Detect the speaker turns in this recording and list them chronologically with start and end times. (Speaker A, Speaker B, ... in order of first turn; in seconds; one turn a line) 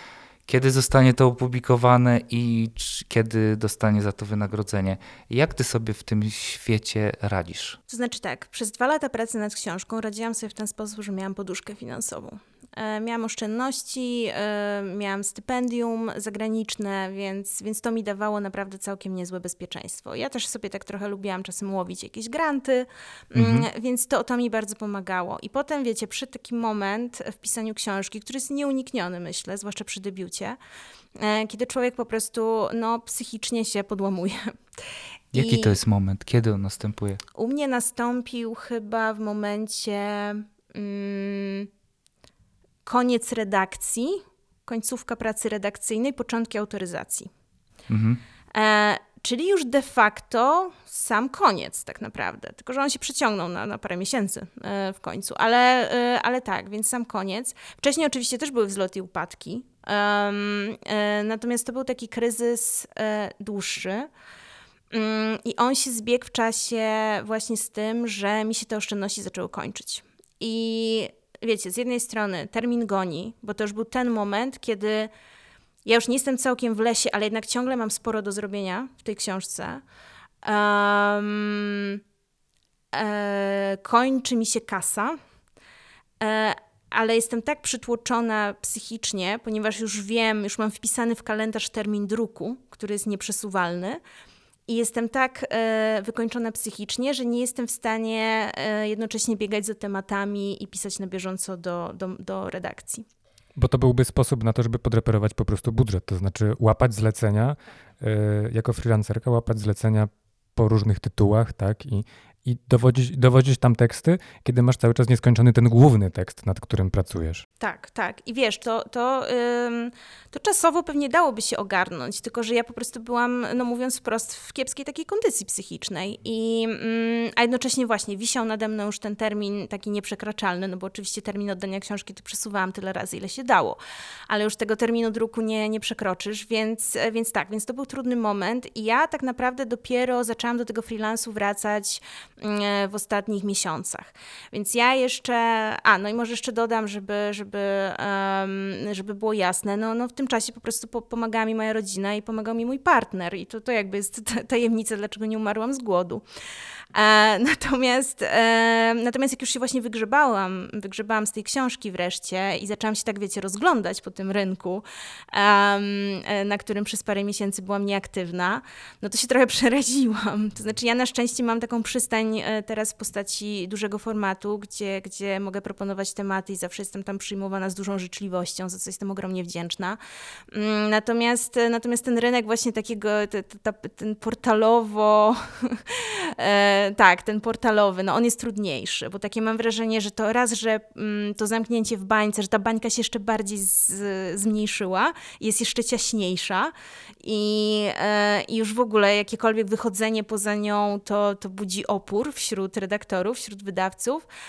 Speaker A: 0.5-7.8
Speaker B: 7.9-30.6
Speaker A: 23.3-23.7
Speaker B: 31.1-34.5
Speaker B: 35.3-35.7
Speaker A: 35.3-37.2
Speaker B: 37.3-41.7
Speaker B: 42.8-47.3
Speaker A: 47.9-48.2
Speaker B: 48.5-64.1
Speaker B: 64.9-75.1
Speaker B: 75.8-79.8
Speaker B: 80.4-82.0
Speaker B: 82.9-85.2
Speaker B: 86.2-94.0
Speaker B: 94.7-103.0
Speaker C: 103.5-117.4
Speaker B: 117.6-133.8
Speaker B: 134.3-156.2
Speaker B: 156.9-180.0
Speaker B: 180.5-204.2